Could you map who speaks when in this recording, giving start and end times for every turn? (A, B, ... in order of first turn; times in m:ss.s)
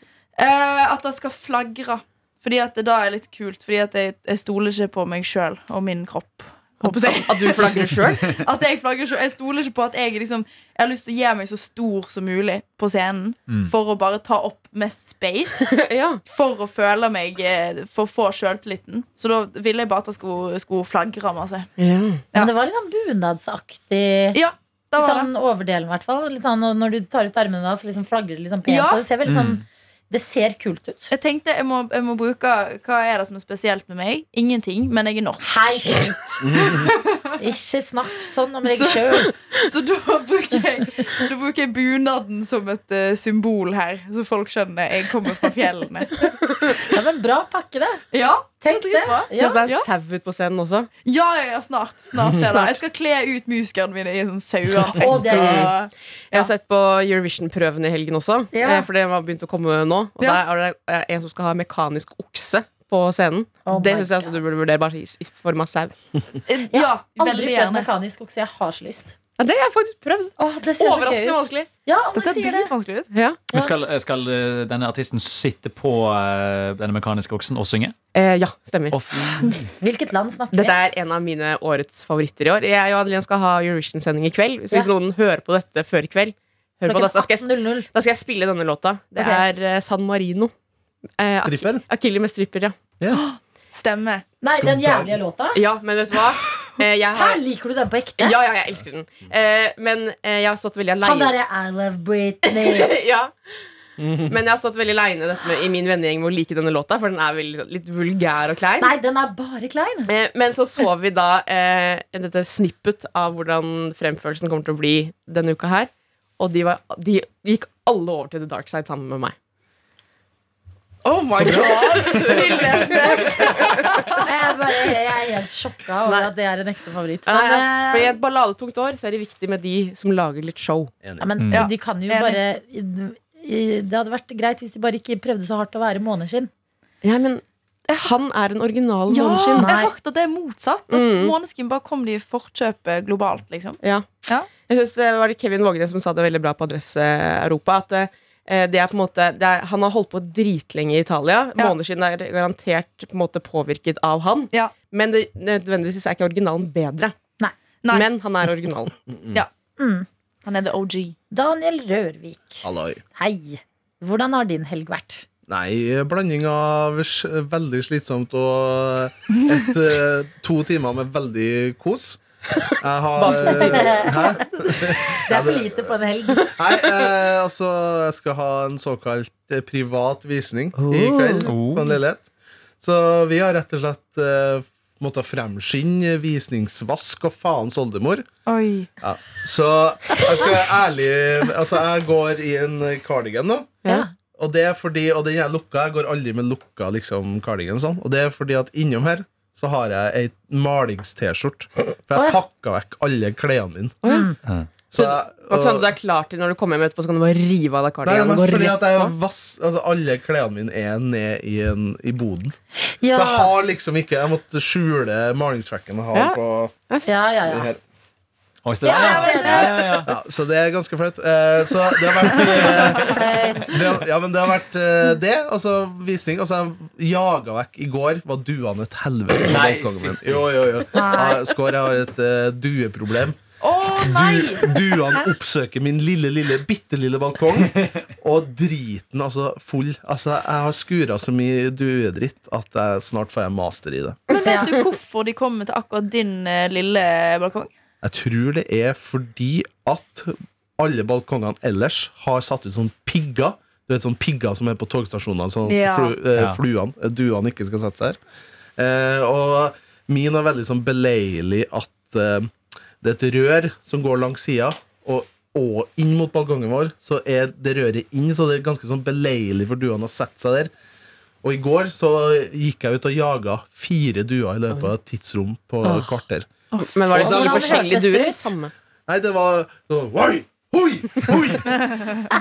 0:00.4-0:21.7 A
0:06.9-0:08.3 B
0:15.6-0:16.2 B
0:21.8-0:22.2 B
0:22.3-0:24.4 C
0:24.3-0:25.3 A
0:25.0-0:31.1 C
0:28.7-0:29.0 A
0:29.2-0:29.6 D
0:31.1-0:36.0 A
0:35.4-0:36.4 C
0:36.4-0:36.9 E
0:36.6-0:37.4 A
0:37.4-0:39.3 C
0:38.6-0:46.8 A
0:46.9-0:48.0 C
0:48.1-0:49.9 A
0:48.6-0:49.7 C
0:49.3-0:50.9 B
0:51.0-0:56.5 A
0:52.4-0:52.8 B
0:55.0-0:55.7 C
0:55.3-0:55.7 B
0:56.3-1:05.9 B
0:58.5-0:58.9 C
1:03.6-1:04.5 C
1:06.5-1:07.9 A
1:06.7-1:09.2 C
1:09.4-1:11.7 B
1:10.4-1:12.7 C
1:12.2-1:13.1 A
1:13.1-1:13.4 B
1:13.5-1:17.9 D
1:18.1-1:19.0 B
1:18.9-1:19.7 D
1:19.8-1:20.8 C
1:20.5-1:30.5 B
1:26.8-1:27.9 C
1:29.2-1:29.4 C
1:31.2-1:32.8 B
1:31.4-1:31.8 E
1:33.1-1:34.2 A
1:34.4-1:35.6 C
1:34.6-1:35.1 E
1:35.5-1:37.4 B
1:37.1-1:38.4 C
1:38.2-1:41.3 B
1:41.0-1:43.0 C
1:42.4-1:43.3 B
1:44.0-1:44.4 E
1:44.3-1:48.9 B
1:48.8-1:50.1 C
1:50.1-1:59.3 B
2:01.0-2:04.2 A
2:01.4-2:01.7 E
2:01.4-2:04.0 B
2:04.2-2:08.2 C
2:06.0-2:06.3 B
2:07.3-2:10.9 B
2:11.0-2:11.3 E
2:11.2-2:16.5 C
2:11.4-2:11.6 D
2:11.5-2:12.4 A
2:17.0-2:19.7 B
2:19.1-2:24.5 A
2:19.5-2:19.9 C
2:20.9-2:21.3 B
2:23.8-2:37.1 B
2:37.9-2:39.0 B
2:39.1-2:39.4 E
2:39.8-2:40.1 C
2:40.4-2:41.2 A
2:41.3-2:45.2 C
2:42.6-2:43.0 E
2:45.5-2:52.2 E
2:52.8-2:55.9 E
2:53.2-2:54.1 B
2:53.3-2:56.5 C
2:56.4-3:02.2 E
3:01.1-3:01.4 C
3:01.4-3:01.9 D
3:02.8-3:08.2 E
3:08.4-3:08.9 A
3:09.0-3:13.8 E
3:14.3-3:24.0 E
3:24.0-3:24.3 B
3:24.0-3:24.4 C
3:24.9-3:25.9 E
3:24.9-3:29.1 B
3:28.0-3:36.7 E
3:32.9-3:33.5 C
3:37.0-3:37.7 C
3:37.5-3:37.8 E
3:38.6-3:40.1 D
3:38.8-3:40.0 C
3:38.8-3:40.0 A
3:40.0-3:53.4 E
3:42.7-3:43.9 C
3:49.4-3:50.4 D
3:50.9-3:51.5 C
3:53.6-3:54.8 A
3:53.9-4:04.2 E
3:57.7-3:58.0 D
4:04.3-4:07.7 A
4:04.3-4:04.7 B
4:04.4-4:04.7 C
4:08.0-4:18.2 E
4:15.6-4:16.1 A
4:18.8-4:30.7 E
4:31.4-4:37.8 E
4:36.8-4:38.7 B
4:37.1-4:38.5 C
4:39.1-4:42.1 E